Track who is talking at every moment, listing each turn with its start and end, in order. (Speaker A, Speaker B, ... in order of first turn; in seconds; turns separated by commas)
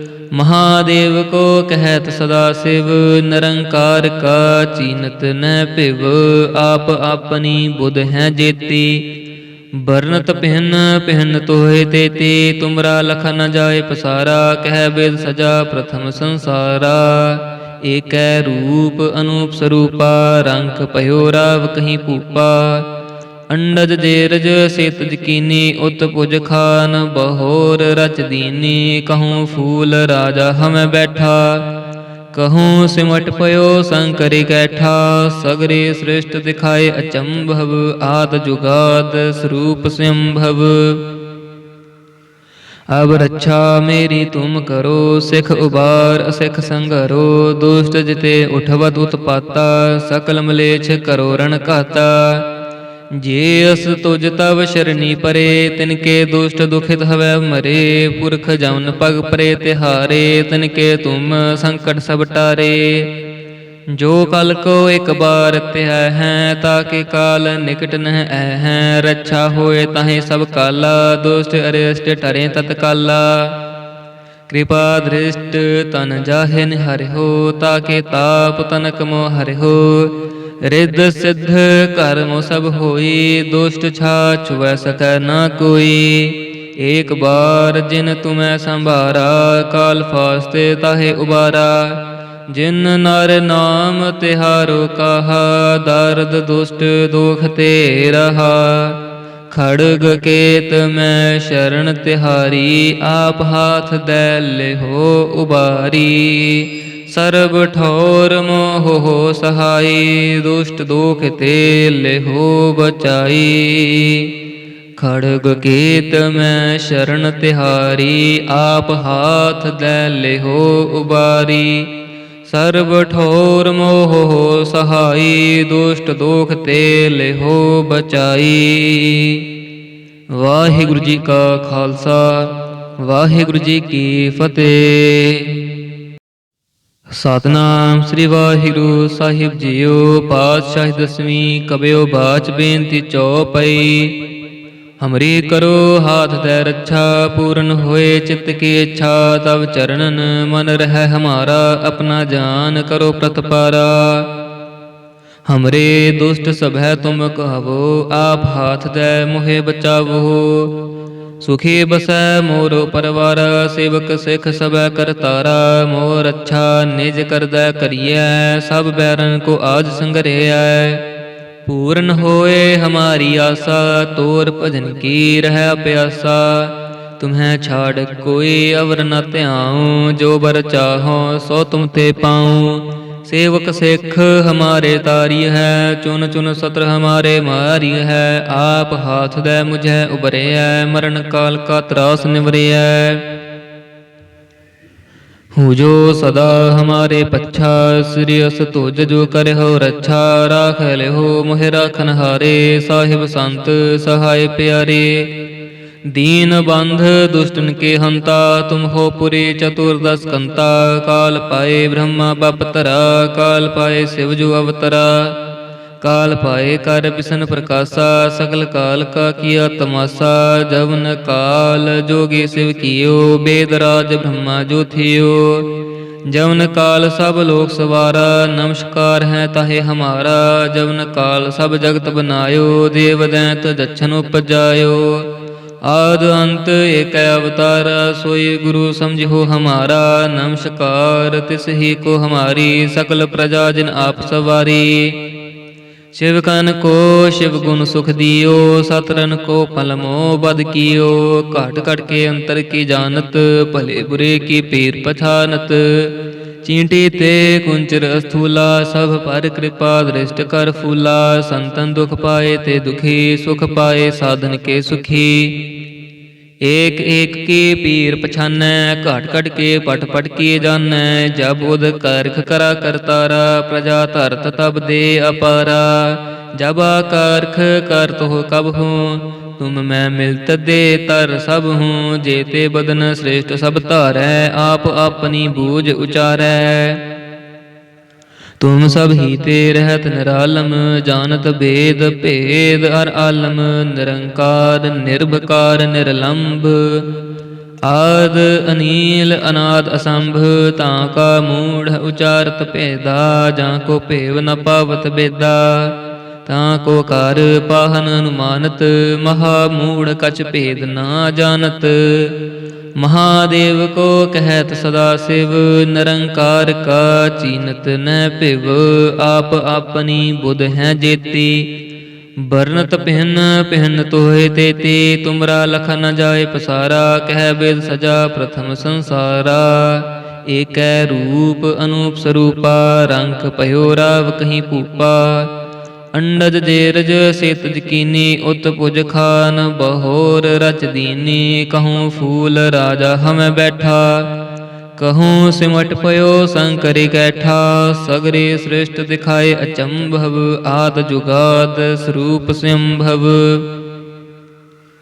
Speaker A: 0.3-9.1, Speaker A: 9.7-22.9, Speaker A: 23.5-31.7, Speaker A: 32.3-41.0, Speaker A: 42.9-52.5, Speaker A: 53.1-63.1, Speaker A: 63.9-73.6, Speaker A: 74.5-114.3, Speaker A: 115.0-121.9, Speaker A: 122.4-129.5, Speaker A: 130.3-135.6, Speaker A: 137.1-144.2, Speaker A: 145.0-154.3, Speaker A: 155.5-160.8, Speaker A: 161.4-171.0, Speaker A: 171.7-193.3, Speaker A: 195.5-205.3, Speaker A: 206.1-215.4, Speaker A: 216.0-225.7, Speaker A: 226.3-235.3, Speaker A: 235.8-245.2, Speaker A: 246.1-265.7, Speaker A: 266.6-287.0, Speaker A: 288.6-297.2, Speaker A: 297.8-312.4, Speaker A: 313.0-321.7, Speaker A: 322.4-335.5, Speaker A: 336.1-344.3, Speaker A: 345.0-353.7